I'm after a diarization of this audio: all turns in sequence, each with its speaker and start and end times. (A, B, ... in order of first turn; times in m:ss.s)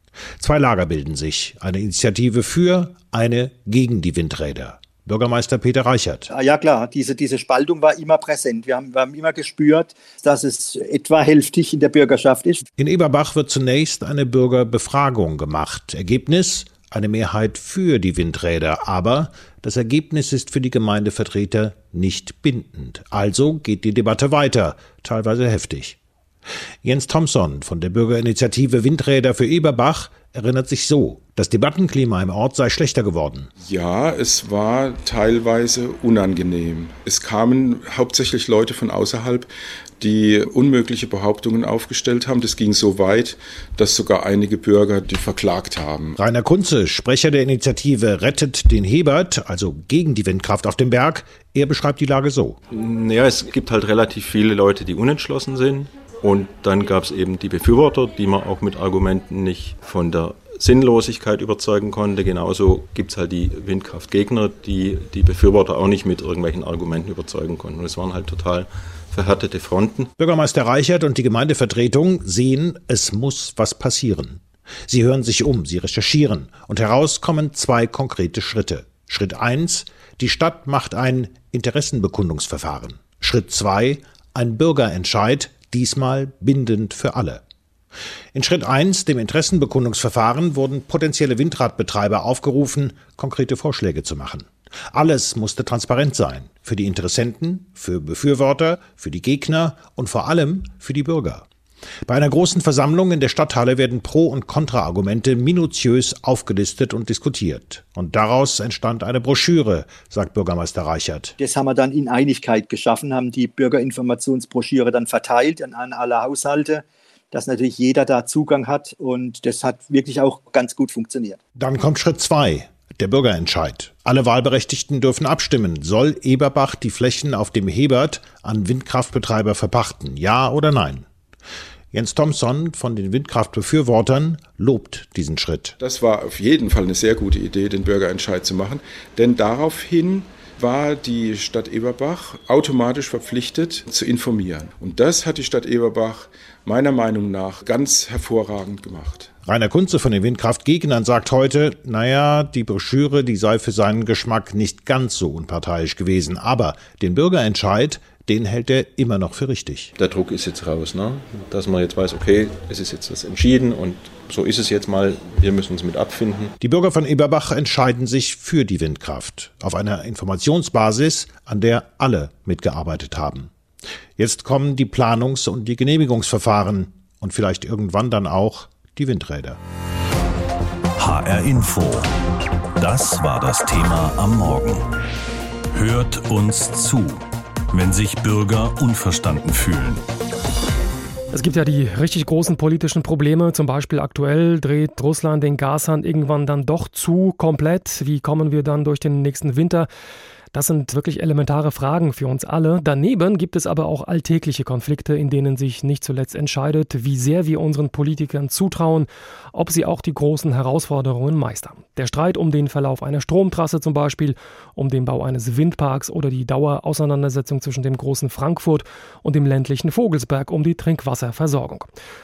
0:00.4-0:06.3 A
0:06.3-0:12.6 B
0:12.8-0:26.0 A
0:26.8-0:33.5 A
0:33.6-0:46.2 C
0:46.2-0:52.6 A
0:52.7-1:10.1 D
1:10.2-1:27.4 A
1:28.3-1:41.5 A
1:42.1-1:51.4 A
1:51.4-2:01.4 B
2:01.6-2:11.1 A
2:11.9-2:15.7 A
2:15.8-2:29.3 C
2:29.4-2:39.9 A
2:40.0-2:46.5 D
2:46.6-2:53.5 A
2:54.2-2:59.6 A
3:01.0-3:02.1 E
3:02.8-3:04.8 E
3:05.7-3:10.0 E
3:11.3-3:19.9 F
3:20.5-3:41.9 F